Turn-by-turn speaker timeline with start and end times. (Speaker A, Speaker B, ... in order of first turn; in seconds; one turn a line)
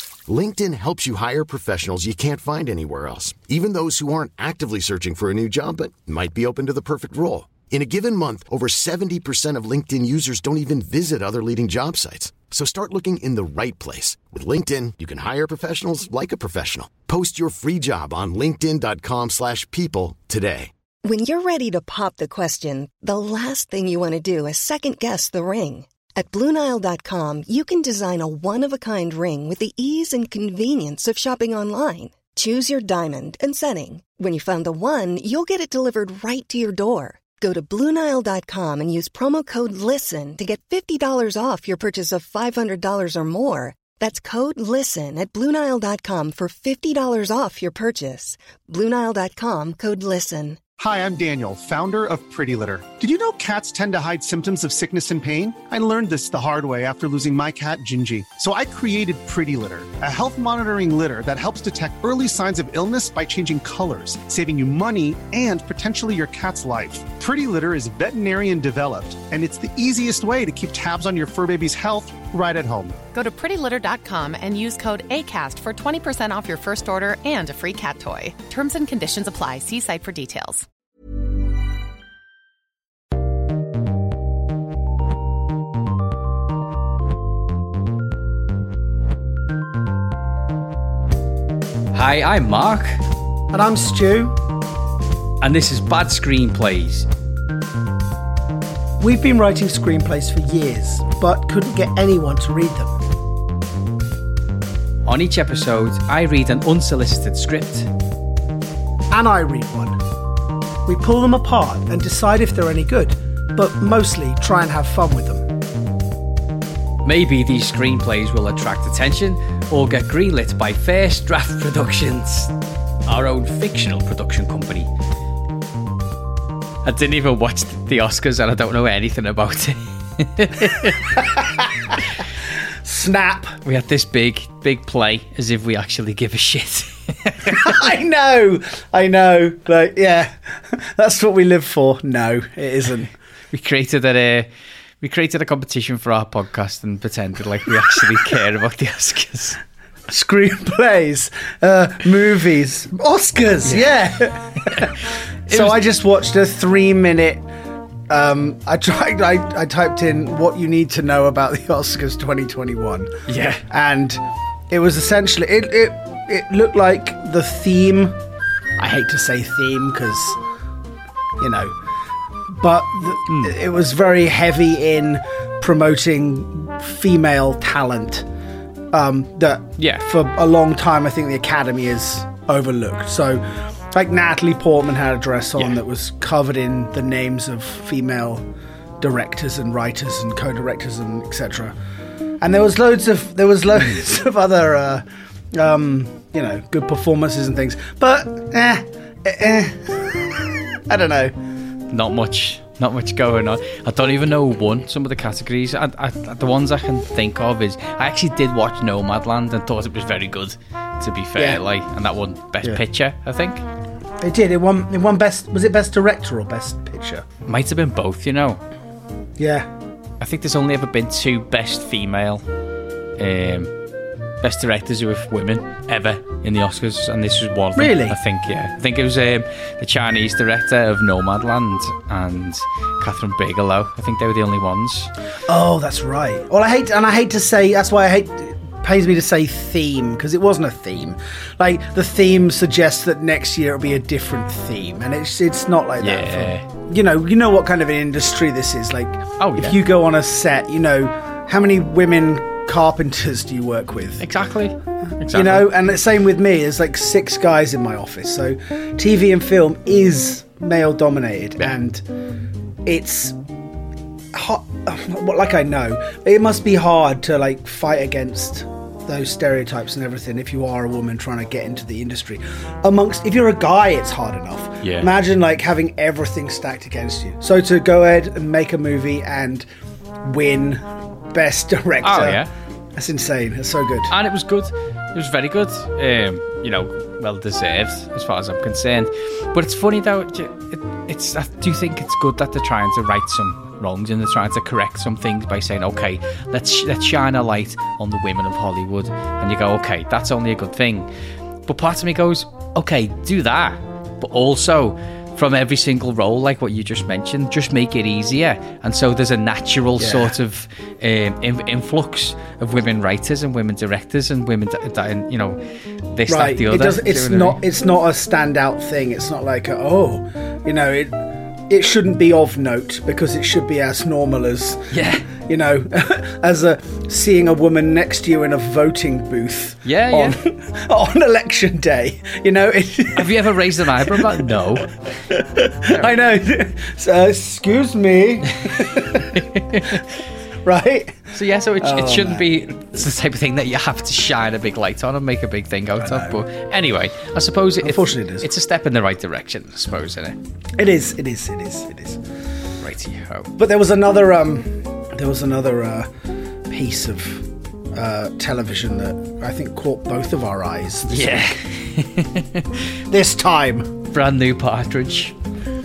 Speaker A: 0.3-20.7
Speaker B: 21.1-50.6
Speaker C: 50.8-73.0
Speaker D: 73.1-80.6
Speaker E: 91.9-93.0
Speaker F: 93.5-94.4
Speaker E: 95.4-97.1
Speaker F: 99.0-102.9
Speaker E: 105.1-107.9
Speaker F: 109.1-110.0
Speaker F: 110.9-115.5
Speaker E: 117.0-122.5
Speaker E: 123.1-124.9
Speaker E: 126.8-131.2
Speaker F: 131.2-132.0
Speaker F: 132.8-133.6
Speaker E: 133.6-137.8
Speaker F: 137.5-143.1
Speaker E: 143.5-144.5
Speaker E: 145.0-149.6
Speaker F: 150.1-154.9
Speaker E: 153.7-153.9
Speaker F: 155.5-157.5
Speaker E: 155.5-155.8
Speaker F: 158.1-168.2
Speaker E: 163.3-163.6
Speaker F: 168.8-170.4
Speaker F: 171.4-171.7
Speaker F: 172.5-178.3
Speaker E: 173.3-173.6
Speaker F: 178.9-188.5
Speaker E: 179.8-180.1
Speaker F: 189.0-191.8
Speaker F: 192.4-201.4
Speaker E: 201.9-213.6
Speaker F: 211.4-211.6
Speaker F: 214.2-217.3
Speaker E: 217.5-218.6
Speaker F: 219.4-219.7
Speaker E: 220.2-222.4
Speaker E: 223.2-223.7
Speaker E: 224.4-235.1
Speaker F: 227.8-228.2
Speaker F: 235.5-254.3
Speaker E: 246.0-246.7
Speaker E: 249.4-249.8
Speaker E: 254.2-255.7
Speaker F: 255.3-262.0
Speaker F: 262.9-263.4
Speaker F: 264.3-279.7
Speaker E: 274.8-275.1
Speaker F: 280.2-282.4
Speaker E: 282.0-282.5
Speaker F: 283.0-284.1
Speaker E: 284.1-301.1
Speaker E: 301.7-315.6
Speaker F: 310.0-310.4
Speaker E: 316.1-317.6
Speaker F: 316.3-321.2
Speaker F: 321.7-334.6
Speaker E: 324.9-325.3
Speaker E: 329.9-330.4
Speaker E: 333.1-335.1
Speaker F: 335.3-340.0
Speaker E: 335.9-336.1
Speaker E: 338.6-340.0
Speaker F: 340.6-342.5
Speaker E: 341.3-350.4
Speaker F: 346.0-346.4
Speaker F: 347.8-348.5
Speaker F: 350.8-352.2
Speaker E: 352.8-353.5
Speaker F: 353.6-356.1
Speaker F: 356.7-361.6
Speaker E: 361.1-362.8
Speaker F: 363.1-364.0
Speaker E: 364.1-365.4